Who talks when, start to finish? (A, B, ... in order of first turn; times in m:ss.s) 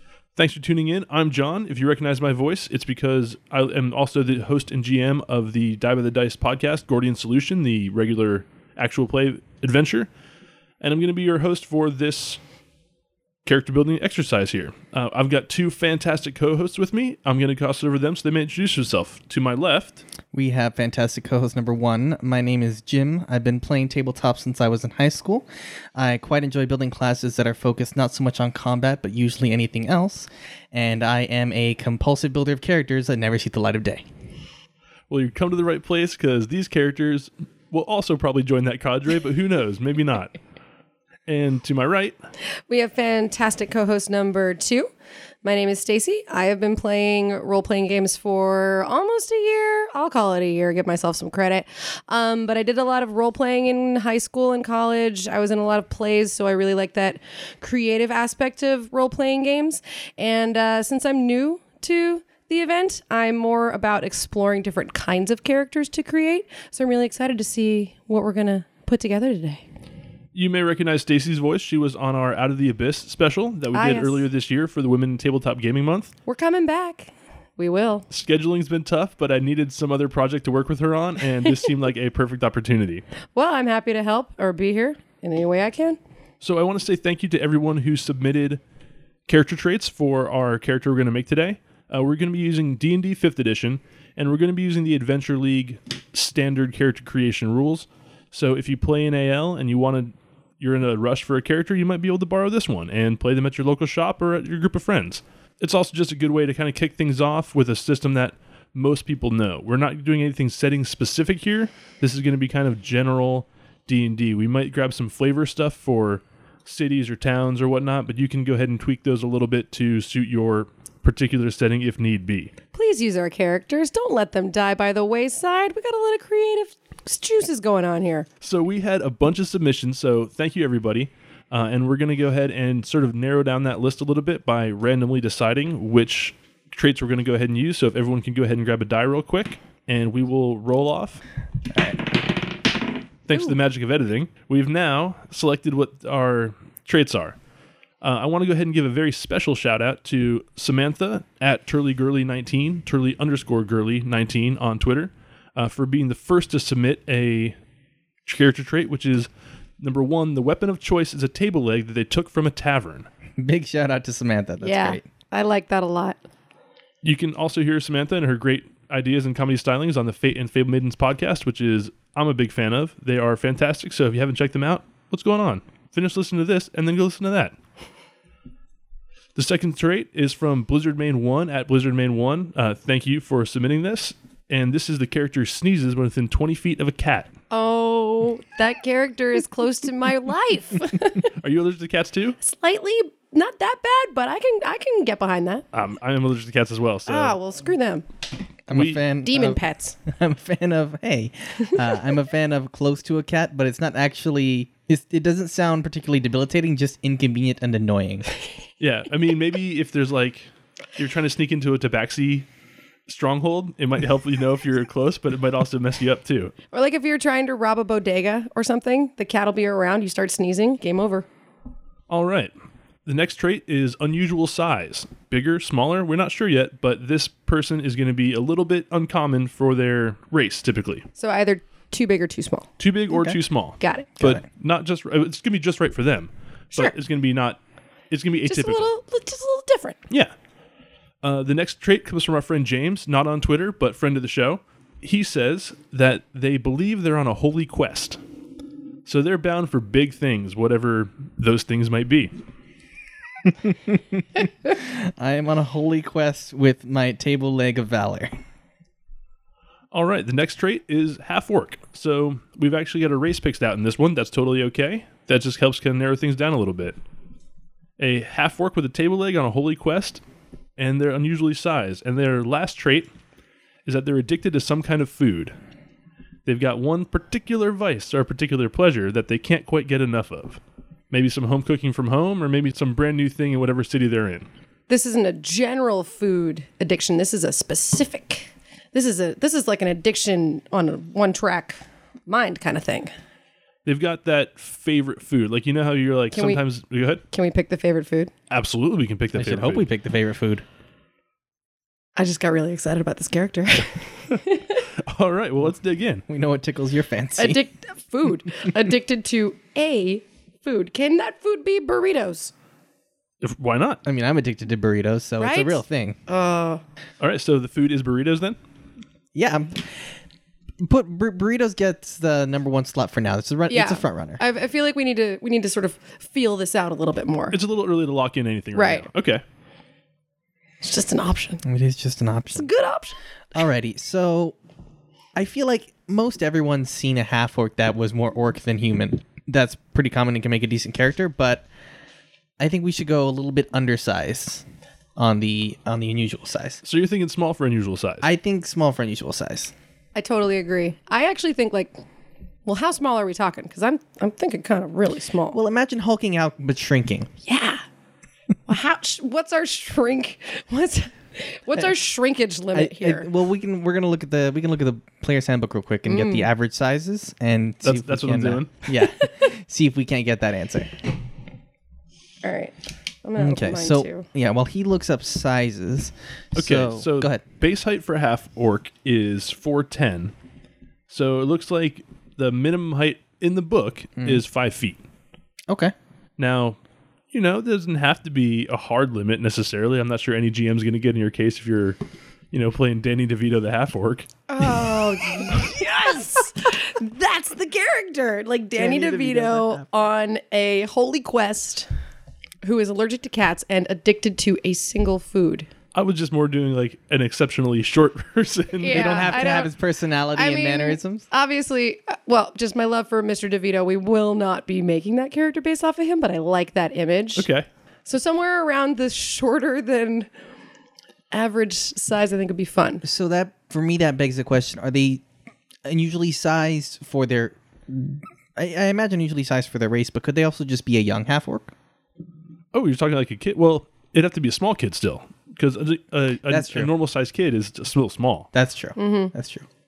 0:00.4-0:10.1 A
0:10.8-0:12.4 A
0:13.4-0:20.0 A
0:20.3-0:34.0 B
0:35.1-0:40.3 A
0:41.3-0:42.2 A
0:42.7-0:44.9 C
0:45.4-1:09.6 C
1:10.3-1:16.1 A
1:13.7-1:14.2 C
1:16.3-1:18.1 C
1:18.1-1:23.0 A
1:23.4-1:26.0 C
1:26.4-1:28.6 A
1:29.3-2:02.5 A
2:02.7-2:08.3 C
2:08.4-2:21.2 A
2:21.8-2:22.0 B
2:23.3-2:27.4 A
2:28.0-2:37.6 A
2:38.3-2:39.3 A
2:39.8-2:43.1 A
2:43.4-2:45.1 B
2:44.6-2:46.2 C
2:47.0-2:57.6 A
2:59.4-3:07.3 A
3:07.5-3:11.3 C
3:11.4-3:12.4 A
3:12.4-3:15.6 C
3:15.7-3:17.4 A
3:17.1-3:18.0 C
3:18.7-3:28.3 B
3:18.7-3:19.0 A
3:19.2-3:20.0 C
3:28.8-3:32.5 A
3:33.1-3:36.5 A
3:36.7-3:41.3 C
3:42.1-3:42.5 A
3:43.1-3:51.0 A
3:51.2-3:54.1 C
3:52.8-3:57.6 A
3:58.1-3:58.9 A
3:58.5-4:00.0 C
4:01.2-4:08.2 A
4:09.0-4:12.3 A
4:13.4-4:18.3 B
4:19.9-4:27.0 A
4:28.0-4:30.2 A
4:30.8-4:33.1 A
4:33.8-4:35.6 A
4:36.5-4:40.6 A
4:41.1-4:44.5 A
4:44.9-4:53.1 C
4:53.9-4:57.2 A
4:56.3-4:56.6 C
4:57.3-4:58.3 C
4:58.5-4:59.9 A
4:59.4-5:00.6 B
5:02.2-5:04.8 C
5:04.3-5:06.2 A
5:06.3-5:07.6 B
5:07.4-5:12.5 C
5:13.4-5:14.0 A
5:14.0-5:16.2 B
5:15.4-5:16.8 C
5:17.2-5:18.6 A
5:19.4-5:20.1 B
5:20.8-5:24.4 B
5:23.7-5:27.6 C
5:27.5-5:29.4 A
5:28.8-5:29.1 C
5:30.8-5:31.6 C
5:31.6-5:32.7 B
5:32.5-5:33.2 C
5:33.5-5:34.6 B
5:35.4-5:41.7 B
5:42.6-5:44.6 B
5:45.2-5:46.8 B
5:46.8-5:48.3 A
5:48.2-5:49.7 B
5:50.2-5:51.9 C
5:52.7-5:55.6 C
5:55.5-5:57.3 B
5:57.4-5:57.8 C
5:58.7-6:03.3 C
6:02.7-6:11.0 B
6:06.1-6:06.5 C
6:07.8-6:08.7 A
6:08.9-6:09.5 C
6:12.4-6:14.3 C
6:13.4-6:17.4 B
6:16.6-6:20.3 A
6:21.1-6:25.0 A
6:25.7-6:25.9 B
6:26.4-6:26.8 A
6:27.3-6:32.0 A
6:32.5-6:34.3 A
6:34.5-6:41.9 C
6:38.8-6:40.1 B
6:42.6-6:45.7 C
6:45.9-6:49.6 A
6:48.8-6:49.7 C
6:48.9-6:51.2 B
6:50.4-6:57.5 C
6:57.4-6:57.7 A
6:58.1-7:00.3 C
7:01.3-7:03.0 C
7:03.0-7:05.2 B
7:05.8-7:11.7 B
7:12.7-7:18.5 A
7:16.5-7:16.9 B
7:18.5-7:19.7 B
7:19.0-7:19.3 C